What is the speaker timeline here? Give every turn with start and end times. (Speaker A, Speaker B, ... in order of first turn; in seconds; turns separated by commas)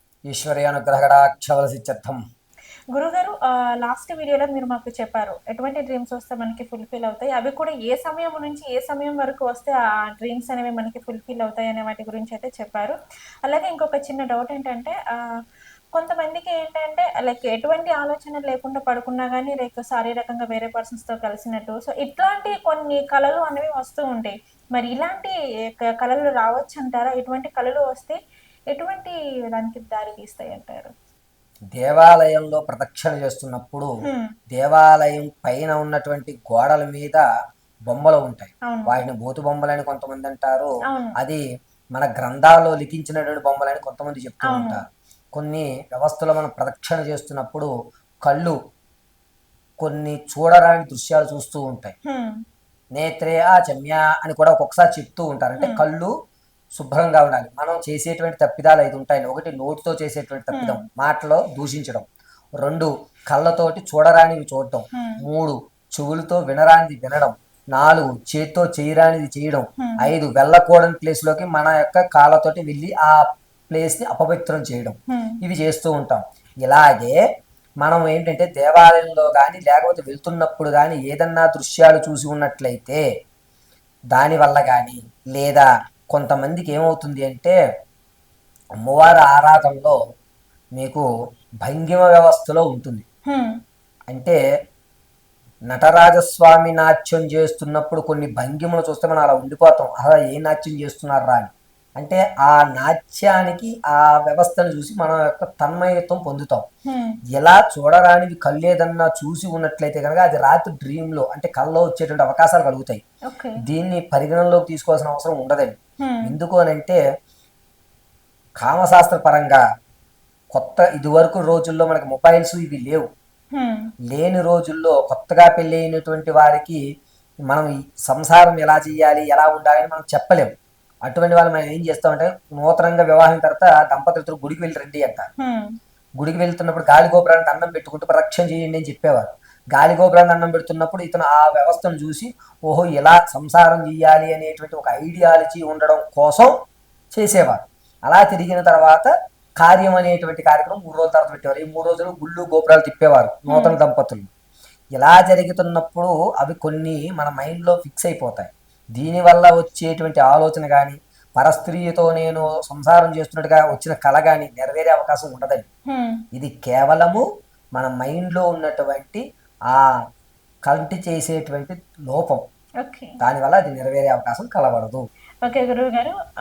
Speaker A: 0.3-2.2, Speaker B: 2.9-15.0, Speaker B: 15.9-28.2, Speaker B: 28.7-30.9, Speaker A: 31.8-33.9, Speaker A: 34.5-37.2, Speaker A: 37.9-41.4, Speaker B: 38.7-39.0, Speaker B: 40.9-41.1, Speaker A: 41.9-44.8, Speaker B: 44.4-44.8, Speaker A: 45.4-47.7, Speaker A: 48.2-48.5, Speaker A: 49.8-51.9, Speaker B: 52.1-52.4, Speaker A: 53.0-56.1, Speaker A: 56.8-62.0, Speaker B: 60.5-60.8, Speaker A: 62.6-77.2, Speaker B: 64.9-65.2, Speaker B: 69.8-70.1, Speaker B: 75.1-75.4, Speaker A: 77.8-83.0, Speaker A: 84.1-87.5, Speaker A: 88.8-90.0, Speaker A: 90.8-91.0, Speaker A: 91.6-93.0, Speaker A: 94.1-94.4, Speaker A: 95.7-106.6, Speaker B: 106.9-107.2, Speaker A: 107.4-113.0, Speaker B: 113.3-113.6, Speaker A: 113.7-115.7, Speaker B: 116.0-116.3, Speaker A: 116.2-117.0, Speaker A: 118.6-119.6, Speaker A: 120.5-123.0, Speaker B: 123.5-123.8, Speaker A: 124.1-126.8, Speaker A: 127.5-130.5, Speaker A: 131.1-135.3, Speaker B: 135.4-135.7, Speaker A: 136.2-146.5, Speaker A: 147.1-147.6, Speaker A: 148.1-149.1, Speaker A: 149.6-154.3, Speaker B: 153.5-153.8, Speaker A: 155.0-165.7, Speaker B: 165.9-166.2, Speaker A: 166.3-167.2, Speaker A: 167.8-169.8, Speaker A: 170.7-172.4, Speaker B: 172.8-173.1, Speaker A: 173.2-175.0, Speaker B: 175.4-176.1